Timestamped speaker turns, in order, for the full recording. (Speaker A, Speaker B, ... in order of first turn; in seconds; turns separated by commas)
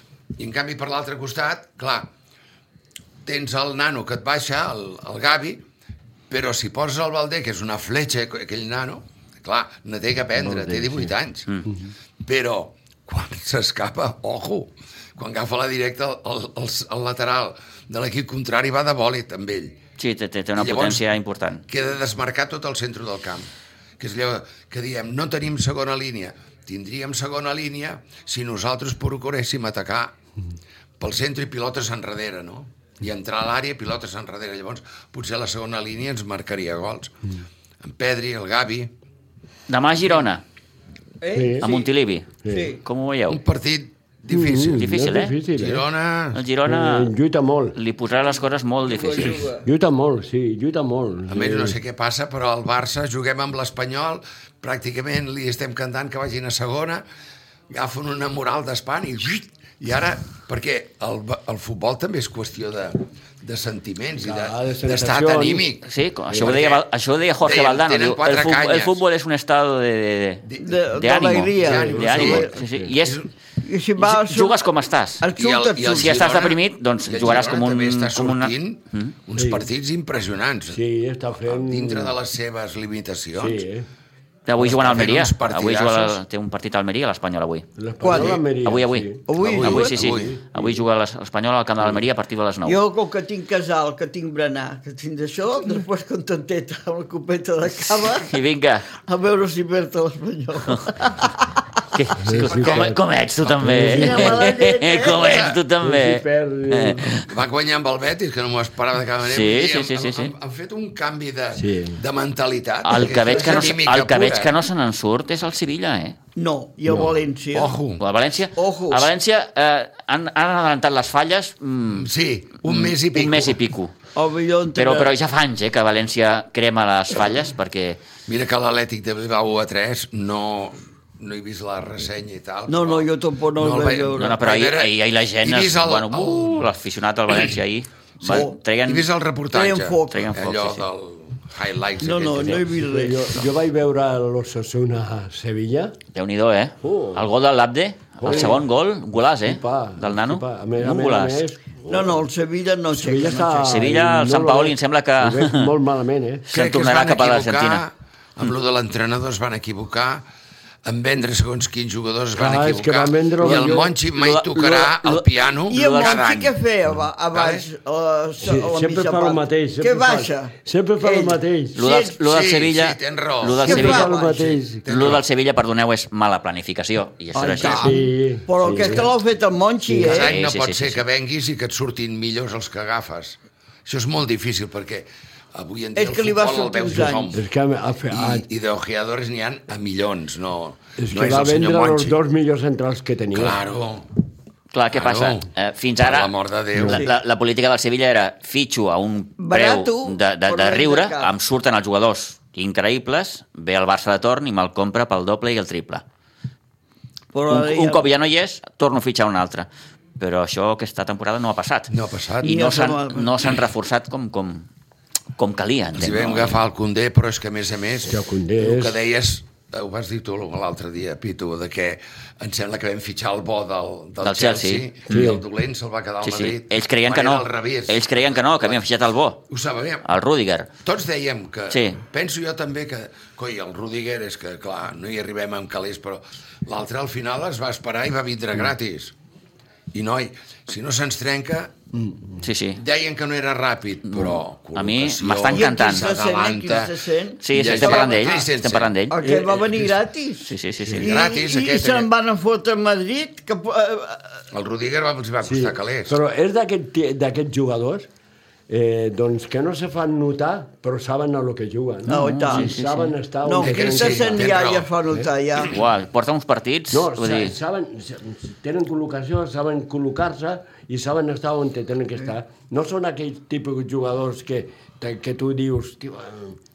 Speaker A: 0.4-2.1, Speaker A: 3.2-5.6, Speaker A: 6.3-11.7, Speaker B: 10.4-11.1, Speaker A: 12.2-19.8, Speaker C: 20.0-21.6, Speaker A: 20.6-21.0, Speaker A: 21.7-30.1, Speaker A: 31.0-37.1, Speaker A: 37.8-38.9, Speaker C: 39.7-40.4, Speaker D: 41.2-41.9, Speaker B: 41.3-41.7, Speaker C: 41.6-43.4, Speaker B: 42.4-42.7, Speaker D: 42.5-42.8, Speaker A: 43.3-44.9, Speaker B: 44.3-45.8, Speaker C: 44.7-45.4, Speaker A: 45.5-46.4, Speaker C: 46.3-47.1, Speaker B: 46.6-47.8, Speaker C: 47.7-49.5, Speaker D: 48.9-49.7, Speaker B: 49.6-51.8, Speaker A: 51.3-57.0, Speaker A: 57.7-66.8, Speaker B: 64.2-65.7, Speaker C: 65.8-73.2, Speaker B: 66.3-66.5, Speaker A: 67.4-69.0, Speaker A: 70.4-73.2, Speaker D: 70.6-72.5, Speaker B: 71.8-72.9, Speaker D: 73.6-74.6, Speaker C: 74.0-75.2, Speaker D: 75.2-76.2, Speaker A: 75.3-80.8, Speaker C: 75.9-79.1, Speaker B: 79.3-79.7, Speaker B: 80.7-82.2, Speaker A: 81.4-83.6, Speaker B: 83.3-83.9, Speaker C: 84.5-87.7, Speaker A: 84.6-86.2, Speaker B: 87.8-90.8, Speaker D: 88.0-88.4, Speaker C: 88.6-92.8, Speaker D: 89.3-90.0, Speaker A: 89.4-90.4, Speaker D: 92.6-98.3, Speaker C: 97.9-98.8, Speaker D: 98.9-101.4, Speaker C: 101.9-107.3, Speaker B: 102.2-103.0, Speaker A: 102.3-103.7, Speaker B: 103.6-104.4, Speaker D: 103.8-105.3, Speaker A: 105.1-105.6, Speaker B: 105.8-107.1, Speaker A: 107.1-114.5, Speaker C: 109.2-110.3, Speaker B: 111.5-112.0, Speaker C: 112.8-116.2, Speaker D: 116.3-117.7, Speaker B: 116.9-117.2, Speaker A: 117.5-118.0, Speaker C: 118.0-122.1, Speaker D: 118.5-119.1, Speaker A: 121.9-123.6, Speaker C: 122.6-123.9, Speaker D: 124.1-125.1, Speaker C: 124.7-128.0, Speaker A: 128.3-136.7, Speaker D: 132.7-134.4, Speaker C: 134.1-139.1, Speaker D: 138.2-138.6, Speaker A: 138.8-142.7, Speaker D: 139.5-140.2, Speaker C: 140.1-140.8, Speaker D: 142.0-143.3, Speaker B: 142.7-145.9, Speaker C: 146.1-151.4, Speaker B: 146.8-147.2, Speaker B: 148.2-148.6, Speaker B: 149.4-152.2, Speaker D: 151.9-153.8, Speaker B: 152.9-156.5, Speaker C: 153.6-155.7, Speaker C: 156.5-157.8, Speaker A: 156.5-160.2, Speaker A: 160.8-166.6, Speaker B: 162.3-163.9, Speaker C: 163.4-166.2, Speaker D: 165.7-172.2, Speaker A: 167.3-167.7, Speaker B: 168.4-171.8, Speaker C: 171.8-174.1, Speaker A: 172.2-175.2, Speaker D: 173.6-174.4, Speaker B: 173.6-175.1, Speaker C: 174.9-177.9, Speaker D: 177.3-180.3, Speaker A: 177.6-177.9, Speaker B: 177.6-179.1, Speaker B: 179.9-180.2, Speaker A: 180.0-187.4, Speaker C: 180.1-181.0, Speaker D: 185.9-187.4, Speaker B: 187.3-188.4, Speaker A: 188.1-192.2, Speaker B: 191.0-193.6, Speaker A: 193.3-194.1, Speaker C: 194.7-206.0, Speaker A: 194.9-195.4, Speaker A: 196.0-197.0, Speaker B: 196.7-197.0, Speaker D: 199.4-201.3, Speaker D: 207.3-208.1, Speaker C: 207.5-209.7, Speaker C: 210.2-214.7, Speaker A: 211.9-212.6, Speaker D: 212.4-213.3, Speaker C: 215.4-216.6, Speaker A: 216.0-228.9, Speaker B: 218.1-219.0, Speaker C: 224.2-225.3, Speaker B: 225.1-225.4, Speaker C: 226.2-229.4, Speaker A: 229.5-230.0, Speaker C: 230.0-230.7, Speaker A: 230.8-239.1, Speaker C: 231.7-232.0, Speaker A: 239.9-241.7, Speaker B: 241.9-242.3, Speaker C: 242.4-242.8, Speaker A: 242.8-246.9, Speaker C: 244.1-246.1, Speaker D: 245.5-248.4, Speaker C: 247.4-249.2, Speaker A: 247.5-249.8, Speaker D: 249.1-254.3, Speaker B: 249.2-249.7, Speaker C: 250.5-251.1, Speaker A: 250.9-252.1, Speaker A: 254.5-256.2, Speaker B: 255.4-258.1, Speaker B: 258.7-264.6, Speaker C: 262.1-263.1, Speaker D: 262.1-262.8, Speaker D: 263.4-265.8, Speaker A: 263.6-264.9, Speaker C: 265.7-267.5, Speaker B: 266.9-276.6